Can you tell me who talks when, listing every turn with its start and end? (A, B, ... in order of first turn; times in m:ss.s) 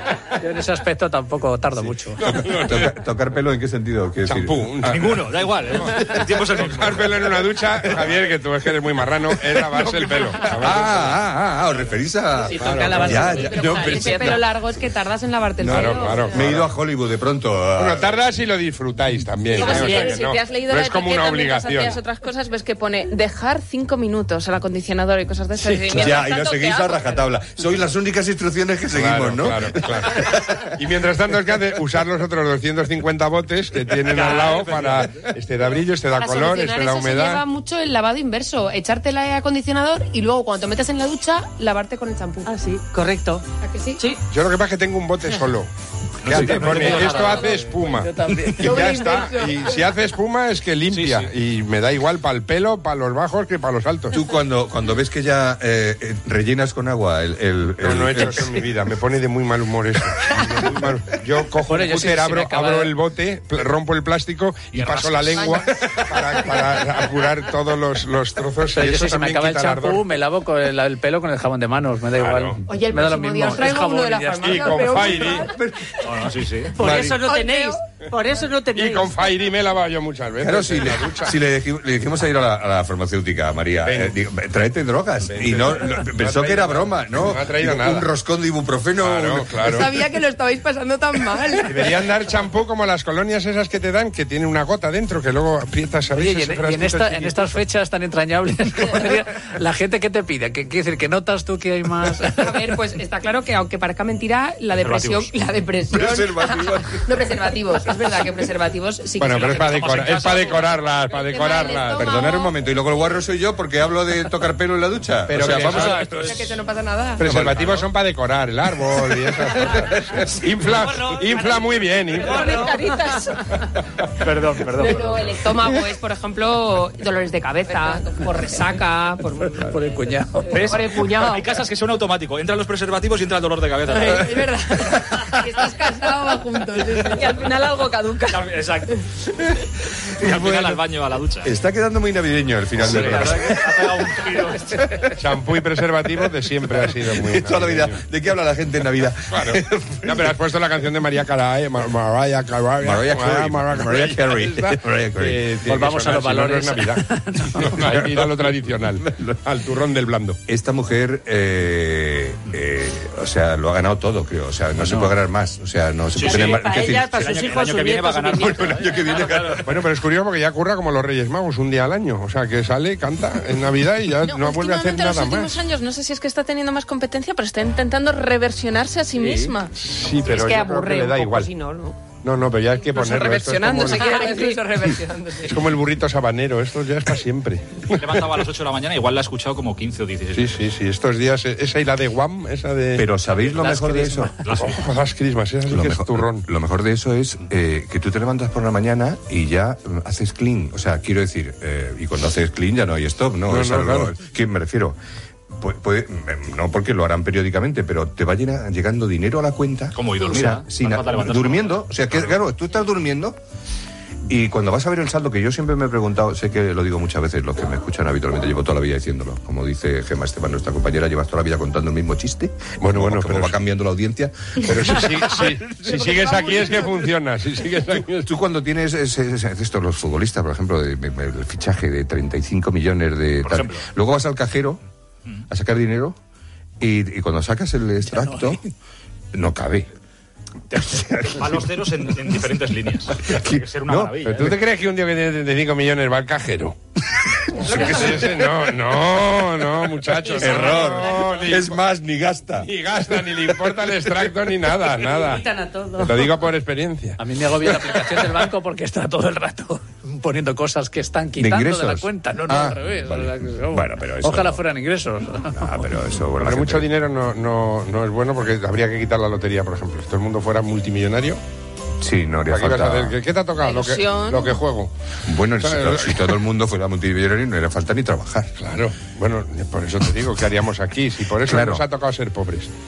0:00.4-0:02.2 A
0:02.2-0:02.9 B
0:02.2-0:05.0 C
0:04.2-0:05.3 B
0:04.8-0:07.3 D
0:06.6-0:11.2 B
0:10.3-0:14.3 C
0:12.5-0:14.3 B
0:12.6-0:16.4 E
0:13.9-0:14.4 F
0:15.6-0:18.1 C
0:15.6-0:16.6 B
0:17.8-0:22.0 B
0:19.6-0:27.3 F
0:19.6-0:20.0 G
0:25.7-0:30.7 C
0:28.9-0:37.4 B
0:34.0-0:35.2 D
0:36.2-0:42.5 E
0:42.4-0:43.4 G
0:43.6-0:44.0 E
0:44.3-0:45.7 B
0:46.2-0:47.6 D
0:46.2-0:54.2 B
0:46.3-0:47.0 C
0:47.9-0:49.0 A
0:48.6-0:49.8 E
0:50.9-0:51.3 D
0:54.1-0:58.6 C
0:57.8-1:10.0 B
1:01.7-1:02.9 A
1:04.7-1:05.6 D
1:08.8-1:15.2 A
1:12.2-1:12.6 B
1:12.7-1:15.6 E
1:14.4-1:15.5 B
1:16.0-1:16.8 D
1:16.7-1:19.1 G
1:16.8-1:17.2 B
1:17.2-1:17.8 E
1:18.7-1:21.4 B
1:20.4-1:29.5 C
1:23.8-1:24.2 B
1:25.3-1:28.1 B
1:29.0-1:30.0 B
1:29.6-1:32.0 E
1:31.6-1:37.5 B
1:36.1-1:42.7 A
1:42.4-1:49.8 E
1:44.8-1:45.3 D
1:45.9-1:47.0 C
1:49.2-1:52.1 B
1:49.3-1:50.9 D
1:51.1-1:52.5 E
1:51.9-1:56.2 C
1:55.3-1:56.5 B
1:56.1-1:57.2 E
1:57.2-2:02.5 B
1:57.2-1:57.6 C
2:01.3-2:01.6 G
2:02.2-2:02.7 G
2:02.2-2:03.6 F
2:02.3-2:02.9 E
2:04.2-2:05.3 D
2:04.7-2:09.8 E
2:07.7-2:08.0 F
2:09.6-2:10.6 A
2:10.5-2:14.5 D
2:10.6-2:11.5 E
2:13.9-2:17.7 E
2:17.2-2:18.3 F
2:18.3-2:19.0 D
2:20.2-2:21.5 D
2:20.2-2:20.8 C
2:21.4-2:24.2 C
2:22.8-2:24.8 D
2:25.2-2:28.0 B
2:27.1-2:30.1 C
2:29.3-2:40.4 B
2:32.8-2:35.4 C
2:35.7-2:37.8 A
2:37.8-2:39.4 C
2:40.5-2:47.2 C
2:44.8-2:45.1 A
2:46.1-2:49.7 D
2:46.2-2:49.0 G
2:48.4-2:49.7 C
2:49.6-2:55.5 B
2:54.3-2:59.7 F
2:59.7-3:01.5 B
3:00.2-3:02.0 E
3:02.2-3:04.1 B
3:02.9-3:04.7 F
3:03.8-3:05.6 E
3:05.4-3:08.2 B
3:07.9-3:10.6 D
3:10.3-3:13.0 B
3:13.0-3:14.3 C
3:13.5-3:14.3 A
3:14.4-3:14.9 D
3:14.6-3:16.4 B
3:15.7-3:25.0 C
3:23.5-3:24.1 B
3:25.6-3:33.4 C
3:29.9-3:32.3 D
3:34.3-3:45.2 C
3:42.8-3:43.6 B
3:44.6-3:48.3 B
3:45.8-3:46.9 E
3:48.2-3:54.8 C
3:53.4-3:53.9 D
3:55.5-3:56.2 C
3:56.8-3:58.6 C
3:58.1-3:58.5 A
3:59.3-3:59.9 C
4:00.7-4:04.6 D
4:00.9-4:01.6 C
4:03.2-4:04.5 C
4:04.2-4:06.8 B
4:07.6-4:11.8 B
4:07.6-4:08.1 D
4:07.7-4:08.2 C
4:10.3-4:12.7 C
4:12.6-4:15.4 B
4:15.0-4:16.3 G
4:16.0-4:17.2 B
4:17.2-4:25.7 A
4:21.4-4:24.6 C
4:25.5-4:26.9 C
4:26.4-4:31.4 B
4:32.0-4:33.1 C
4:32.5-4:34.9 B
4:33.6-4:34.5 F
4:35.2-4:38.6 C
4:35.6-4:36.3 B
4:38.6-4:42.7 B
4:41.4-4:41.8 C